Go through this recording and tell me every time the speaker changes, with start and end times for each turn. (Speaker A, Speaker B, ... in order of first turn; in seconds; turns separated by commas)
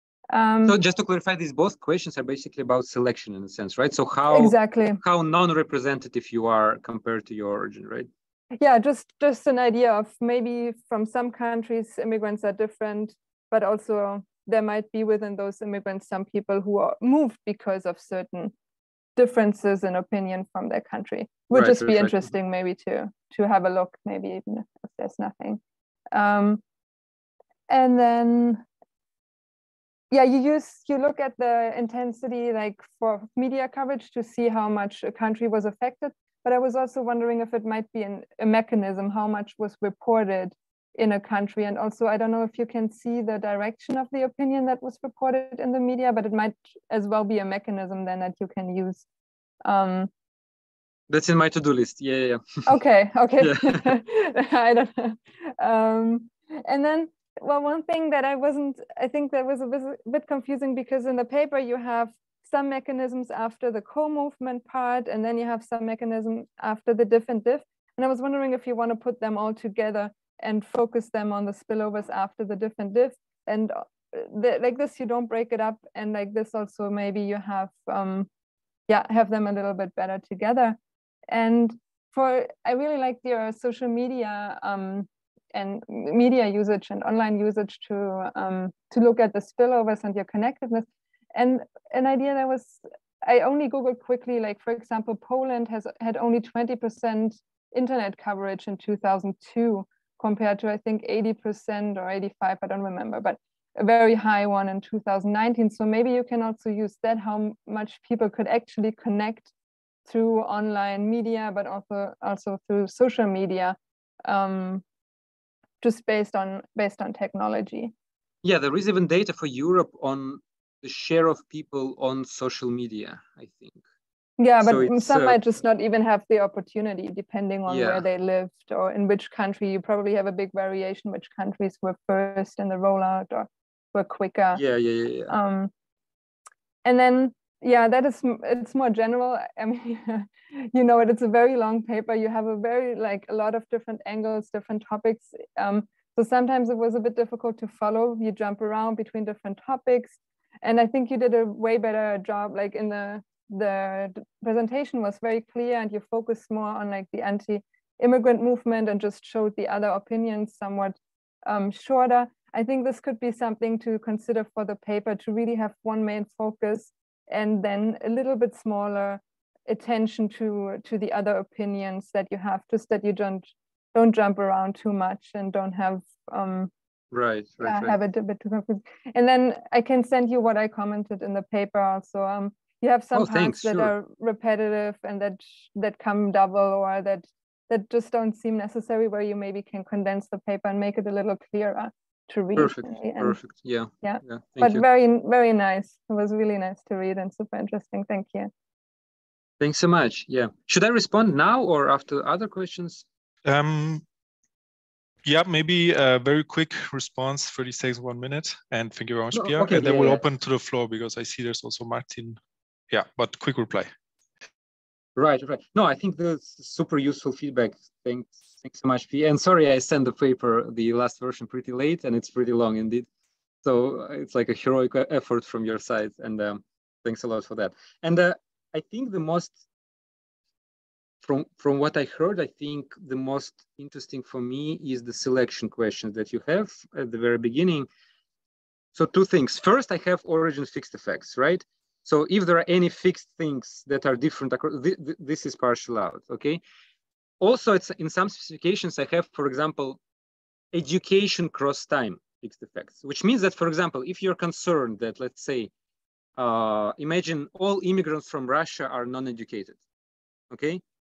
Speaker A: 0.3-0.8, Speaker B: 0.6-8.1, Speaker A: 4.3-5.0, Speaker A: 8.6-18.5, Speaker A: 19.2-25.6, Speaker B: 21.5-22.3, Speaker A: 26.1-26.6, Speaker A: 27.7-28.6, Speaker A: 30.1-49.0, Speaker A: 49.6-50.1, Speaker B: 51.1-52.7, Speaker A: 52.7-78.3, Speaker B: 53.4-53.9, Speaker A: 78.9-80.8, Speaker A: 81.3-109.5, Speaker A: 110.1-114.8, Speaker A: 115.8-117.9, Speaker B: 118.4-123.8, Speaker A: 124.4-134.6, Speaker B: 124.6-125.4, Speaker B: 127.7-128.0, Speaker B: 134.6-135.3, Speaker A: 135.3-135.7, Speaker A: 136.8-176.7, Speaker B: 177.1-178.0, Speaker A: 177.6-193.4, Speaker B: 183.1-183.9, Speaker B: 192.6-194.8, Speaker A: 194.0-198.5, Speaker B: 199.6-203.0, Speaker C: 203.4-204.0, Speaker C: 205.3-212.4, Speaker B: 209.3-210.2, Speaker C: 212.9-213.9, Speaker B: 215.2-223.1, Speaker B: 223.6-229.5, Speaker B: 231.2-237.9, Speaker B: 238.9-246.6, Speaker B: 247.4-250.0, Speaker B: 250.7-255.7, Speaker B: 256.4-259.8, Speaker B: 260.5-260.8